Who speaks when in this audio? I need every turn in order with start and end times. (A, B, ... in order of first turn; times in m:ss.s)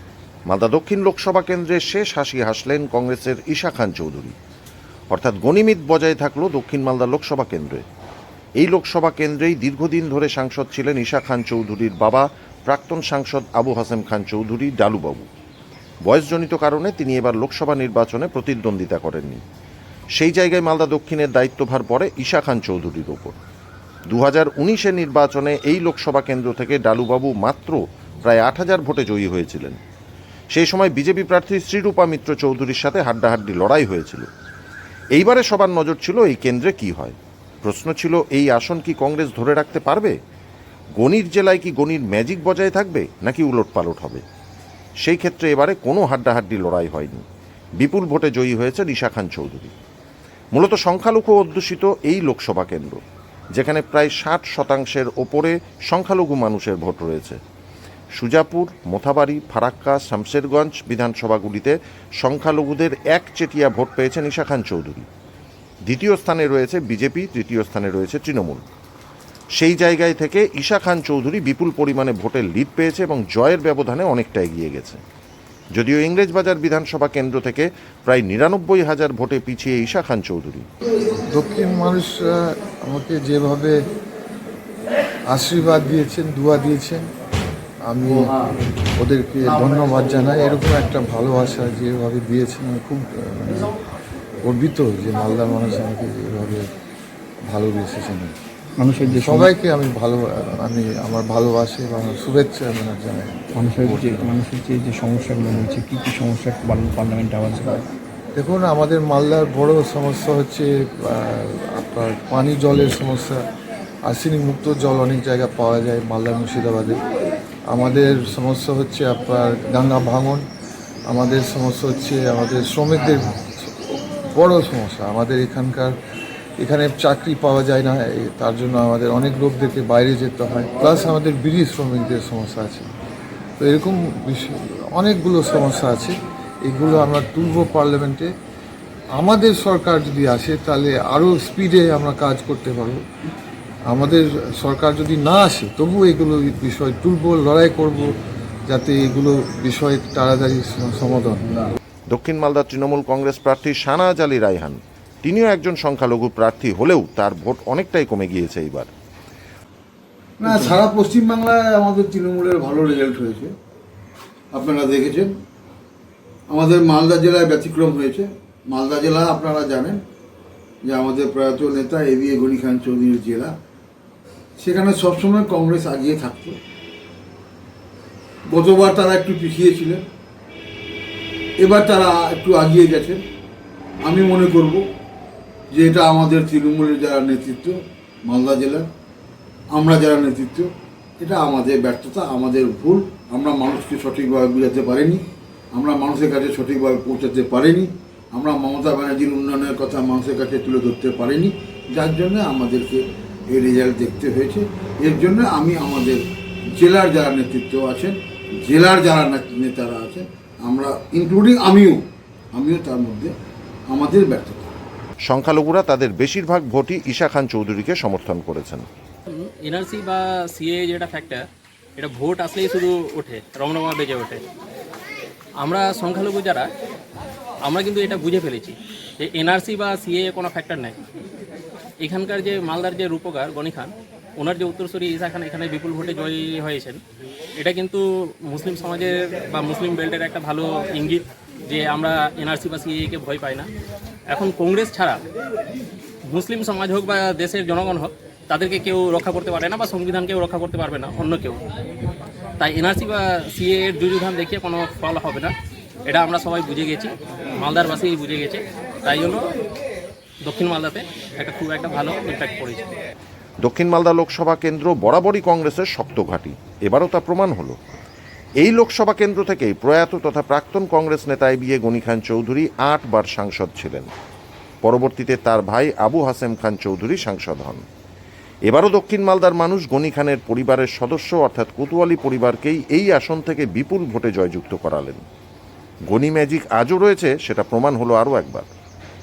0:00.5-0:04.4 A
0:05.1-0:07.8 A
0:08.6-0:15.3 A
0:16.0-0:19.4 A
0:20.2-0:23.4 A
0:24.1-0:29.8 A
0:30.5-0:34.3 A
0:35.1-0:40.1 A
0:41.0-0:44.2 A
0:45.0-0:47.2 A
0:47.8-0:49.7 A
0:50.5-0:53.0 A
0:53.5-0:57.4 A
0:58.2-1:05.1 A
1:05.9-1:08.6 A
1:09.6-1:15.0 A
1:15.8-1:20.6 A
1:21.3-1:23.8 B
1:25.3-1:27.0 B
1:27.9-1:28.3 B
1:29.0-1:33.7 B
1:34.4-1:36.6 B
1:37.5-1:38.3 B
1:38.8-1:39.5 C
1:39.1-1:44.2 B
1:43.6-1:47.8 C
1:48.4-1:53.4 B
1:54.1-1:57.0 B
1:57.7-2:00.4 B
2:01.1-2:05.9 B
2:06.6-2:12.9 B
2:13.6-2:16.1 B
2:16.6-2:18.3 B
2:19.2-2:23.0 B
2:23.9-2:28.1 B
2:28.7-2:31.6 B
2:32.1-2:38.9 A
2:40.4-2:43.5 D
2:44.5-2:45.3 D
2:46.5-2:50.0 D
2:50.8-2:53.5 D
2:54.6-2:56.6 D
2:58.5-3:00.0 D
3:01.6-3:03.2 D
3:04.0-3:04.8 D
3:05.7-3:08.9 D
3:09.7-3:15.2 D
3:15.7-3:26.2 D
3:26.7-3:32.0 D
3:32.5-3:33.3 D
3:33.9-3:34.7 D
3:35.3-3:38.8 A
3:39.4-3:41.4 E
3:42.0-3:44.4 E
3:45.6-3:46.7 E
3:47.7-3:51.0 E
3:52.0-3:57.0 E
3:57.6-4:03.7 E
4:04.3-4:05.2 E
4:06.3-4:11.6 E
4:12.6-4:15.5 E
4:16.1-4:19.4 E
4:20.5-4:22.8 E
4:23.6-4:27.8 A
4:28.6-4:34.1 A
4:34.8-4:37.8 A
4:38.7-4:45.2 A
4:46.1-4:48.7 A